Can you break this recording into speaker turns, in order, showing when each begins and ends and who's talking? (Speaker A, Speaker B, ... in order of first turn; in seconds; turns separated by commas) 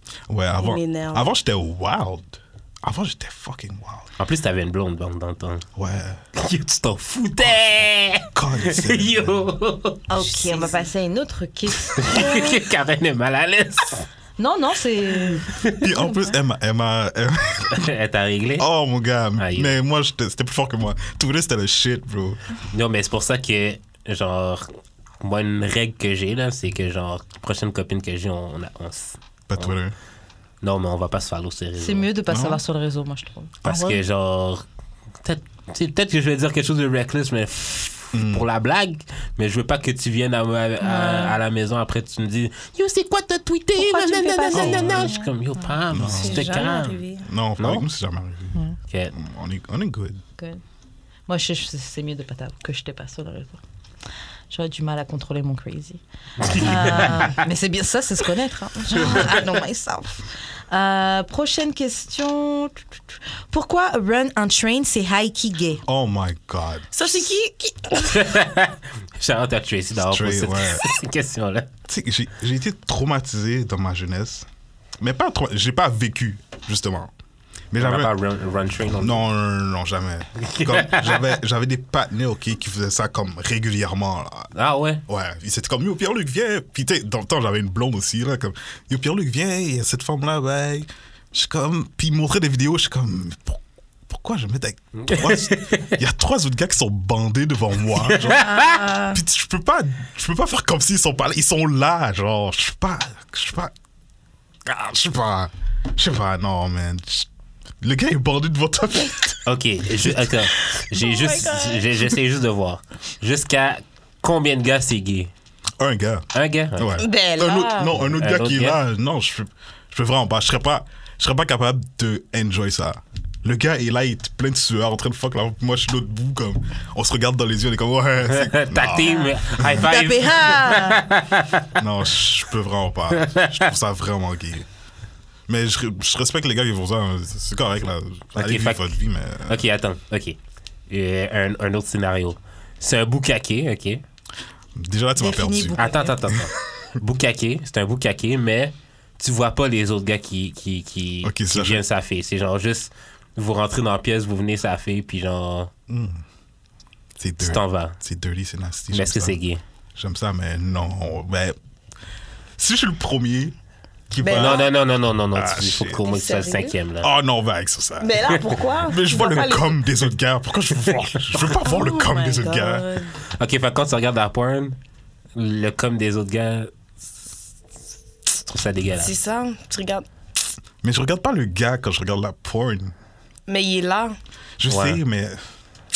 Speaker A: 0.3-4.1, Speaker B: 0.6-1.3, Speaker C: 4.2-5.7, Speaker A: 5.8-6.2, Speaker C: 6.3-10.1, Speaker A: 8.3-9.4, Speaker D: 10.1-12.5, Speaker B: 10.2-10.8, Speaker C: 11.9-14.1, Speaker D: 14.4-15.5, Speaker C: 15.4-15.9, Speaker A: 15.8-17.8, Speaker C: 17.7-18.7, Speaker A: 18.6-22.4, Speaker C: 19.4-19.8, Speaker C: 22.7-29.7, Speaker A: 29.5-29.9, Speaker C: 30.6-32.1, Speaker D: 31.8-34.0, Speaker A: 32.3-32.6, Speaker C: 33.6-34.6, Speaker C: 35.2-47.0, Speaker A: 38.1-38.5, Speaker D: 40.8-41.4, Speaker B: 43.8-45.0, Speaker A: 44.5-45.1, Speaker D: 45.0-45.3, Speaker A: 45.9-46.5, Speaker B: 46.0-47.3, Speaker A: 47.2-48.6, Speaker C: 47.6-47.9, Speaker C: 48.9-49.1, Speaker A: 49.1-50.2, Speaker D: 51.3-53.6, Speaker D: 54.5-65.8, Speaker C: 56.4-57.3, Speaker A: 65.9-67.3, Speaker B: 66.9-68.3, Speaker C: 68.1-71.7, Speaker A: 70.0-70.8, Speaker A: 71.9-74.5, Speaker A: 75.0-77.1, Speaker A: 77.7-78.1, Speaker C: 77.8-79.2, Speaker A: 79.0-84.5, Speaker C: 80.4-81.4, Speaker C: 84.5-85.0, Speaker A: 85.1-103.7, Speaker C: 95.0-96.0, Speaker C: 98.0-99.0, Speaker D: 98.3-99.2, Speaker A: 104.7-107.3, Speaker A: 107.8-109.5, Speaker C: 109.5-115.3, Speaker A: 110.0-110.5, Speaker B: 110.9-112.2, Speaker A: 115.8-129.9, Speaker C: 116.3-117.0, Speaker B: 117.0-118.0, Speaker C: 118.1-118.8, Speaker C: 128.3-131.8, Speaker D: 129.8-131.0, Speaker A: 131.8-134.7, Speaker C: 133.1-133.7, Speaker A: 135.5-139.6, Speaker C: 138.3-140.4, Speaker C: 140.9-144.0, Speaker A: 144.8-146.5, Speaker D: 145.2-146.2, Speaker C: 145.8-155.7, Speaker A: 151.2-151.8, Speaker A: 155.9-156.2, Speaker A: 157.2-159.4, Speaker C: 157.4-158.0, Speaker C: 158.9-159.6, Speaker A: 160.0-161.6, Speaker A: 162.6-163.6, Speaker A: 164.1-164.7, Speaker B: 164.2-164.7, Speaker C: 164.3-167.1, Speaker A: 165.3-166.0, Speaker B: 166.0-166.7, Speaker A: 167.0-172.9, Speaker B: 168.0-169.8, Speaker C: 171.2-171.6, Speaker B: 171.5-173.2, Speaker C: 173.4-174.8, Speaker C: 175.3-177.3, Speaker C: 178.3-179.2, Speaker B: 179.0-180.1, Speaker A: 180.8-182.9, Speaker B: 183.5-184.2, Speaker A: 184.6-185.4, Speaker C: 184.7-185.0